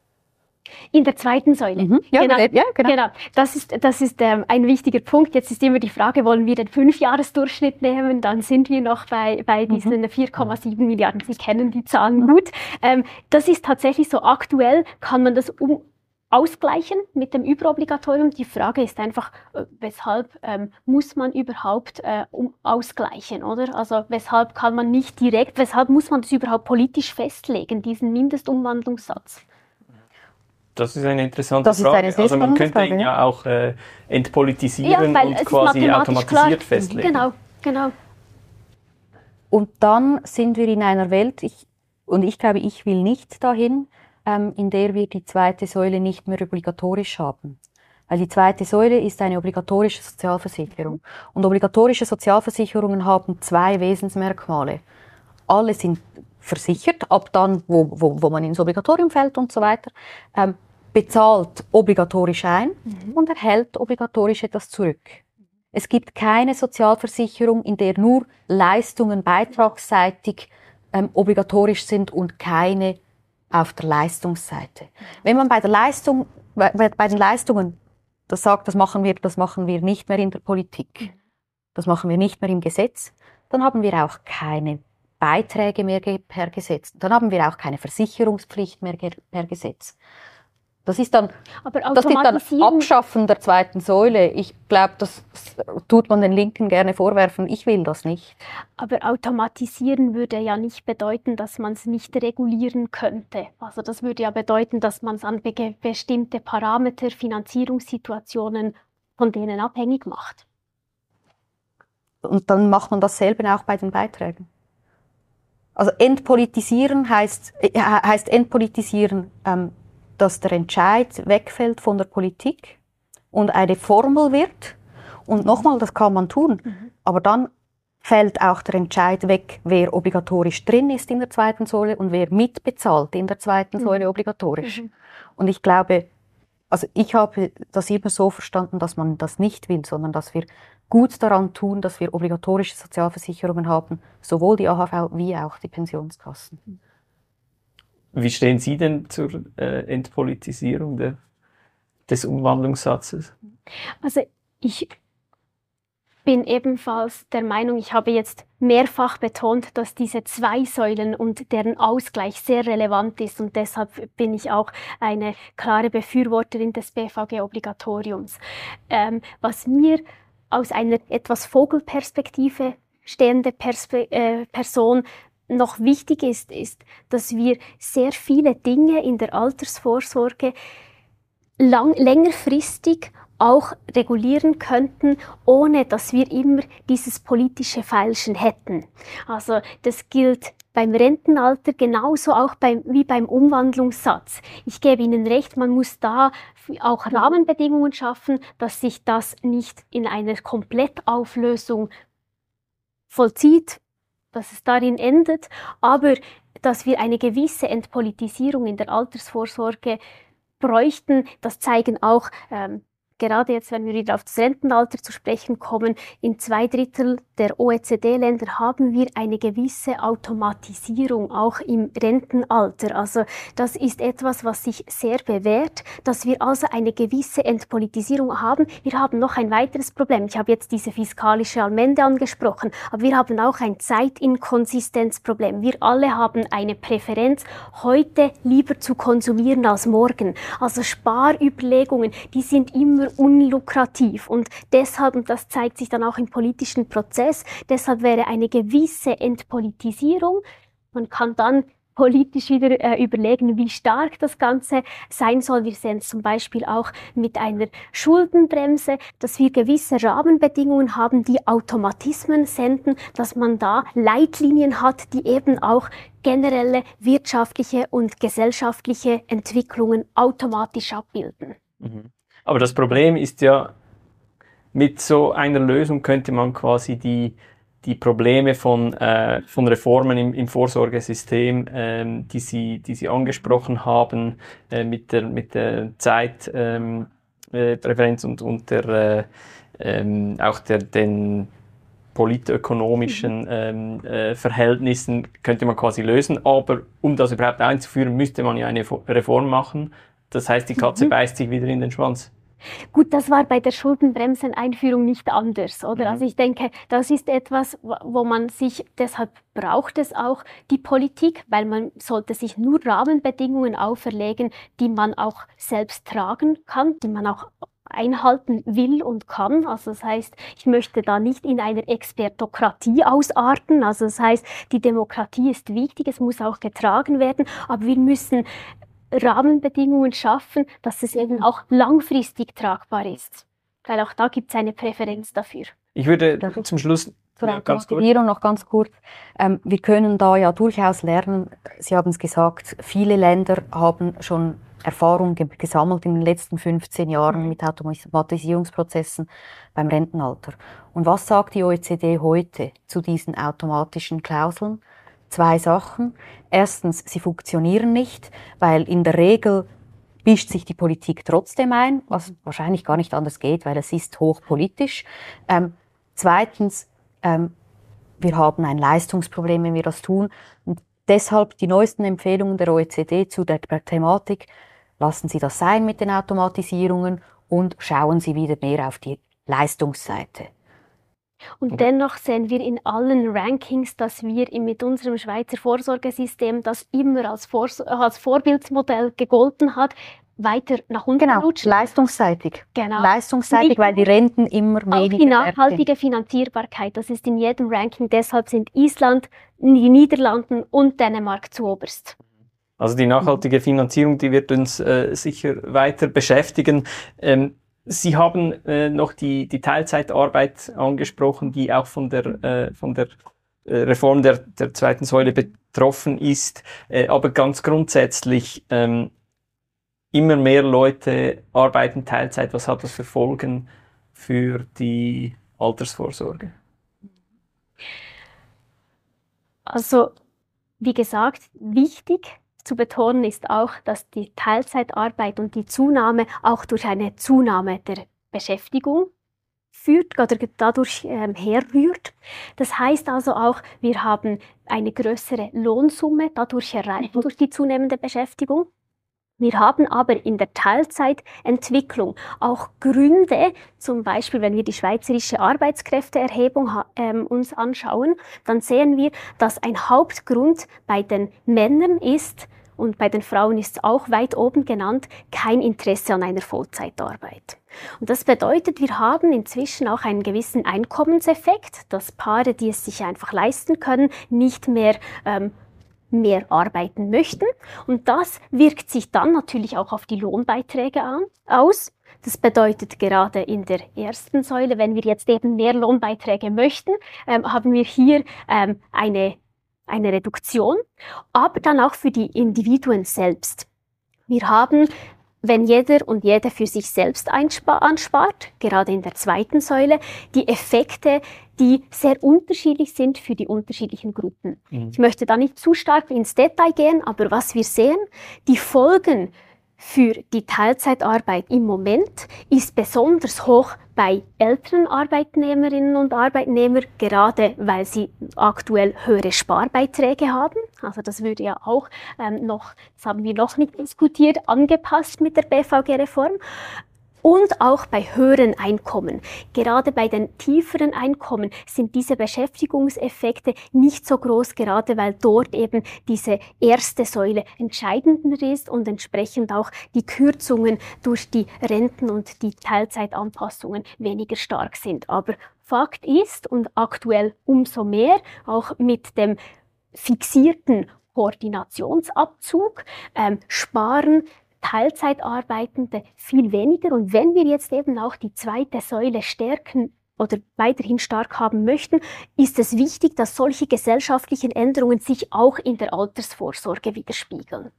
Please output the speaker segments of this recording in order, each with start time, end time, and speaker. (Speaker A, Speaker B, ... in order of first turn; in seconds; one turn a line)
Speaker A: 0.9-29.4
Speaker B: 1.8-2.9
Speaker B: 9.7-9.9
Speaker C: 30.8-37.2
Speaker B: 31.6-33.1
Speaker A: 34.8-37.9
Speaker B: 39.5-47.6
Speaker B: 48.1-54.8
Speaker B: 55.5-73.0
Speaker B: 73.5-77.8
Speaker B: 78.3-81.1
Speaker B: 81.7-90.0
Speaker B: 90.8-91.3
Speaker A: 91.7-92.9
Speaker B: 91.9-98.3
Speaker A: 98.8-110.4
Speaker B: 112.2-114.5
Speaker B: 115.8-122.8
Speaker B: 123.3-124.8
Speaker B: 125.3-127.5
Speaker B: 128.0-134.8
Speaker B: 135.4-136.1
Speaker B: 136.7-146.6
Speaker C: 148.1-151.2
Speaker C: 152.1-153.3
Speaker A: 154.0-154.9
Speaker A: 156.2-168.4
Speaker A: 168.9-180.5
Speaker A: 181.6-201.9
Speaker A: 203.1-203.8
Speaker A: 204.3-210.0
Speaker A: 210.6-250.4
Speaker A: 250.9-271.6
Speaker C: 271.8-273.7
Speaker C: 274.7-291.5
Speaker C: 292.1-302.3
Speaker A: 302.9-328.4
Speaker C: 306.0-306.2
Speaker A: 329.1-335.7
Speaker C: 335.9-338.0
Speaker B: 337.4-359.7
Speaker B: 360.2-367.5
Speaker B: 368.2-380.5
Speaker A: 381.6-391.8
Speaker B: 391.2-395.8
Speaker A: 392.8-393.9
Speaker A: 394.9-402.2
Speaker C: 402.8-413.1
Speaker C: 413.6-419.1
Speaker C: 420.1-426.5
Speaker A: 429.7-430.1
Speaker A: 430.8-439.1
Speaker A: 439.7-448.7
Speaker A: 449.4-475.5
Speaker A: 476.1-489.4
Speaker A: 489.9-490.8
Speaker A: 491.3-493.7
Speaker A: 494.3-494.9
Speaker A: 495.4-526.4
Speaker C: 504.7-505.0
Speaker A: 527.2-549.4
Speaker A: 549.9-567.7